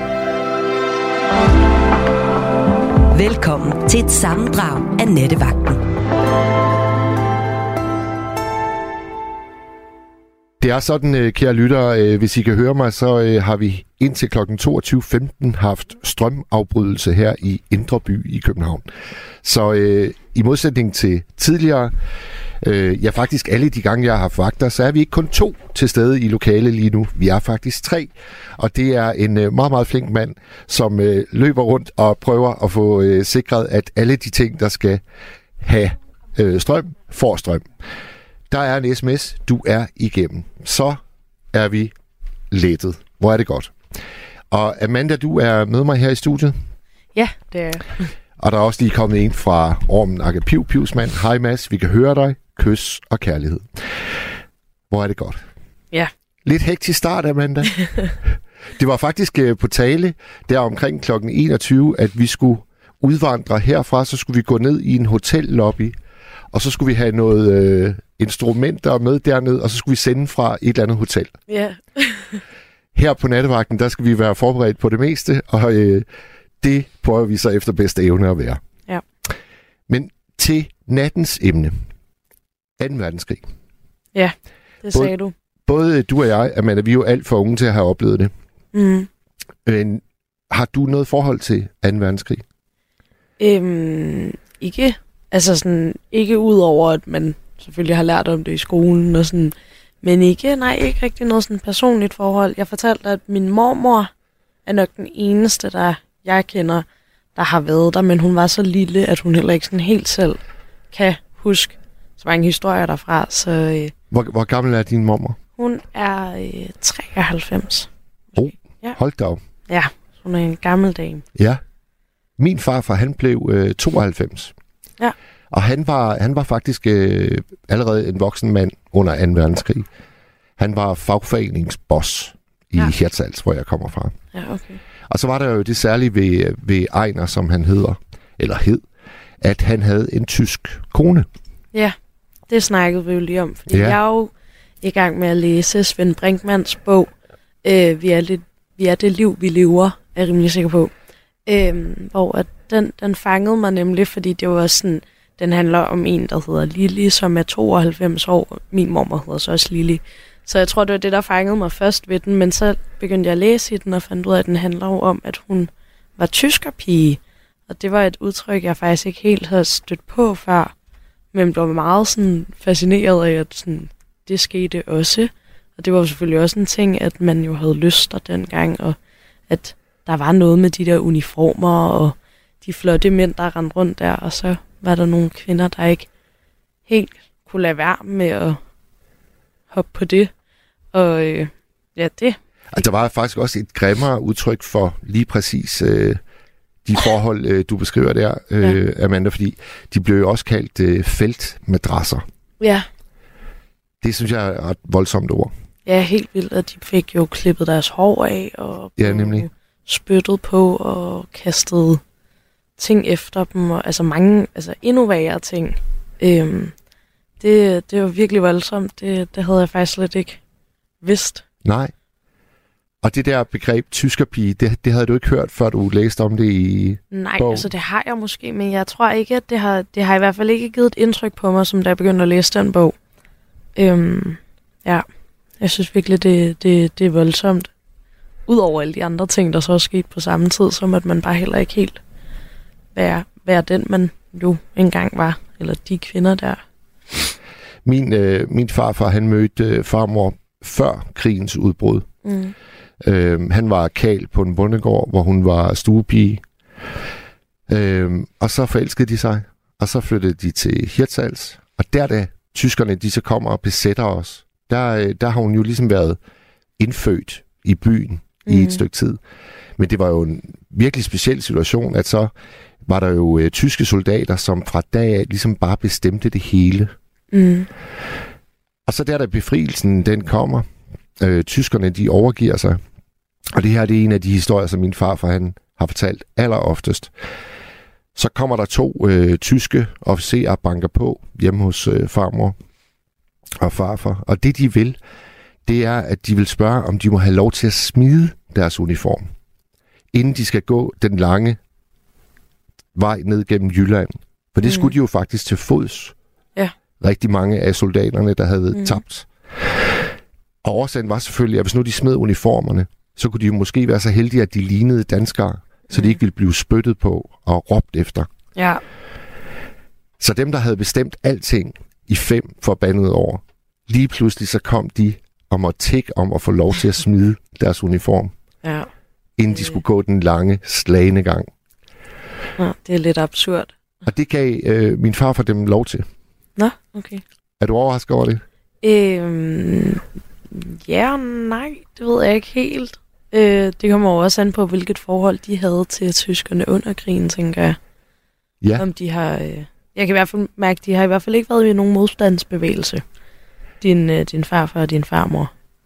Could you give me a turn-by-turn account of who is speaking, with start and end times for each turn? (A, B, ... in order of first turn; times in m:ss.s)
0:03.1-0:05.8 A
0:10.6-0:18.9 B
0:19.4-0:22.0 B
0:22.6-0:35.0 B
0:35.6-0:37.8 B
0:38.5-0:41.0 B
0:41.5-0:41.9 B
0:42.5-0:43.9 B
0:44.5-0:46.6 B
0:47.2-0:48.1 C
0:48.4-0:54.1 B
0:54.9-0:55.4 B
0:56.4-1:06.0 B
1:06.5-1:11.4 B
1:11.5-1:12.4 C
1:12.9-1:16.1 B
1:16.6-1:18.6 B
1:19.9-1:21.9 B
1:22.8-1:23.4 B
1:24.1-1:25.3 C
1:25.7-1:28.3 B
1:28.7-1:29.1 C
1:29.6-1:32.4 B
1:33.4-1:44.1 C
1:44.6-1:50.4 C
1:50.9-1:53.9 C
1:54.1-1:55.4 B
1:55.6-1:59.0 C
1:58.4-1:59.4 B
1:59.7-2:01.2 C
2:01.4-2:01.6 B
2:02.4-2:04.5 B
2:05.5-2:09.9 B
2:10.6-2:14.2 B
2:14.3-2:14.8 C
2:15.1-2:18.9 B
2:19.4-2:21.3 B
2:22.5-2:50.7 C
2:23.7-2:24.0 B
2:51.3-3:06.1 C
3:06.9-3:08.6 C
3:09.7-3:10.3 C
3:10.9-3:12.4 C
3:12.7-3:16.2 B
3:16.8-3:22.2 B
3:22.6-3:22.9 C
3:24.0-3:25.5 B
3:25.9-3:32.0 C
3:29.0-3:29.5 B
3:32.8-3:36.8 C
3:37.4-3:40.4 C
3:41.0-3:41.4 C
3:41.6-3:41.9 B
3:43.0-3:47.7 B
3:47.1-3:53.0 C
3:53.8-3:55.1 C
3:55.6-3:57.7 C
3:58.5-4:02.0 C
4:02.9-4:06.6 C
4:07.8-4:12.1 B
4:12.2-4:12.5 C
4:13.0-4:16.4 B
4:17.7-4:26.2 B
4:26.8-4:29.2 B
4:28.5-4:28.8 C
4:29.8-4:32.3 B
4:32.8-4:36.9 B
4:37.3-4:37.7 C
4:38.9-4:42.8 B
4:43.5-4:47.2 B
4:48.2-4:52.6 B
4:53.6-4:55.0 B
4:55.6-4:59.3 B
5:00.1-5:01.6 B
5:03.0-5:06.2 B
5:04.6-5:04.9 C
5:07.0-5:10.1 B
5:08.7-5:09.0 C
5:10.6-5:18.3 B
5:18.6-5:18.8 C
5:20.2-5:28.3 B
5:28.6-5:28.9 C
5:29.4-5:31.5 B
5:32.6-5:33.7 C
5:34.0-5:36.1 B
5:36.6-5:37.2 C
5:37.6-5:38.4 B
5:38.8-5:47.8 C
5:48.8-5:53.0 C
5:53.8-5:55.5 C